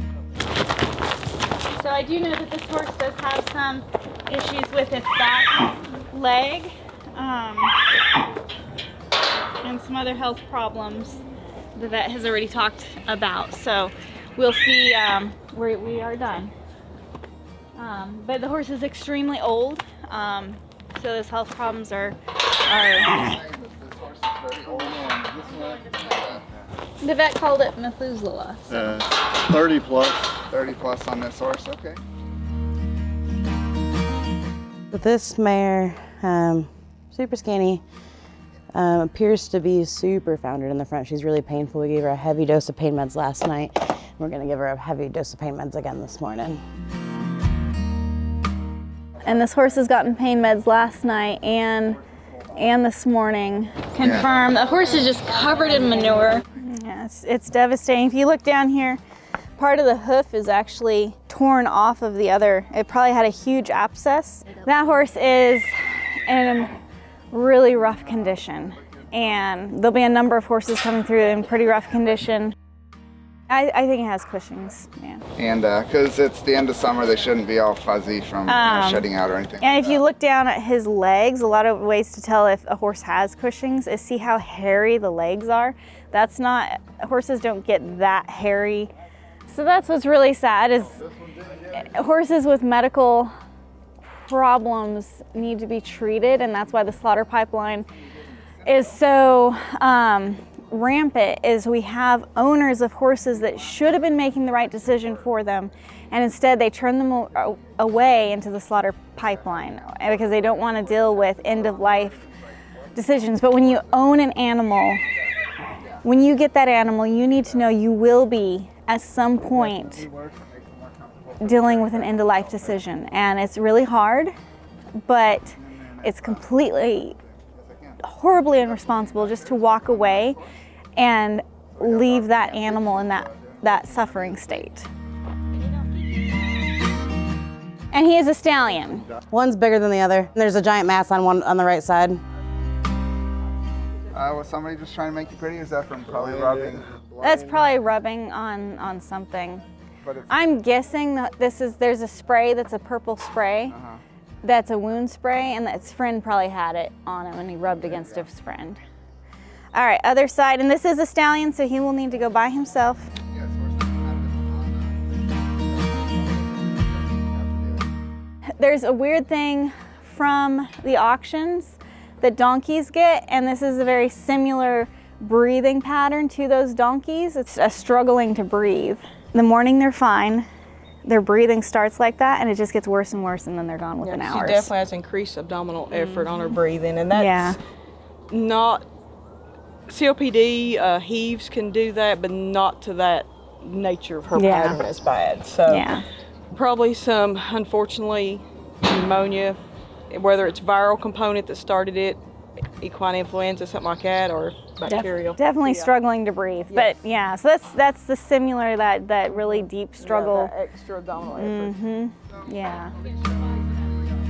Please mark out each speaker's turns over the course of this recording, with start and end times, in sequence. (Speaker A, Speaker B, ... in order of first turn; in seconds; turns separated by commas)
Speaker A: 1.7-7.8, Speaker A: 9.6-11.2, Speaker A: 11.8-16.5, Speaker A: 17.8-23.3, Speaker B: 23.1-26.7, Speaker A: 27.0-28.6, Speaker C: 28.7-30.3, Speaker B: 30.5-32.0, Speaker D: 34.9-37.8, Speaker D: 38.7-46.6, Speaker A: 49.2-52.0, Speaker A: 52.5-59.0, Speaker B: 54.0-54.3, Speaker A: 59.6-65.7, Speaker A: 66.2-66.8, Speaker A: 67.3-72.5, Speaker A: 73.5-75.2, Speaker B: 75.4-80.0, Speaker A: 78.5-79.1, Speaker A: 79.6-88.9, Speaker A: 89.5-91.0, Speaker C: 91.1-91.8, Speaker A: 91.9-93.3, Speaker A: 94.0-97.9, Speaker A: 98.7-112.2, Speaker A: 113.0-115.0, Speaker A: 116.0-120.0, Speaker B: 119.6-122.7, Speaker A: 121.4-124.3, Speaker A: 125.1-127.2, Speaker B: 125.6-126.4, Speaker B: 127.2-128.0, Speaker A: 128.0-130.4, Speaker B: 128.6-130.4, Speaker A: 131.0-134.9, Speaker B: 131.8-134.6, Speaker A: 137.9-139.1, Speaker D: 139.3-142.2, Speaker B: 144.1-146.9, Speaker C: 146.1-147.7, Speaker A: 147.2-149.6, Speaker B: 150.0-150.3, Speaker A: 150.3-153.8, Speaker B: 153.7-154.0, Speaker A: 154.4-158.8, Speaker A: 159.7-163.1, Speaker B: 163.3-164.9, Speaker B: 165.8-167.8, Speaker A: 168.6-180.5, Speaker A: 181.1-184.7, Speaker E: 184.0-187.6, Speaker A: 185.9-186.6, Speaker A: 187.1-187.6, Speaker E: 188.3-188.9, Speaker E: 189.9-195.9, Speaker A: 194.4-194.8, Speaker A: 195.7-196.0, Speaker E: 196.5-199.6, Speaker E: 200.1-202.2, Speaker E: 202.8-205.9, Speaker A: 204.9-210.5, Speaker E: 209.3-211.8, Speaker A: 211.3-212.9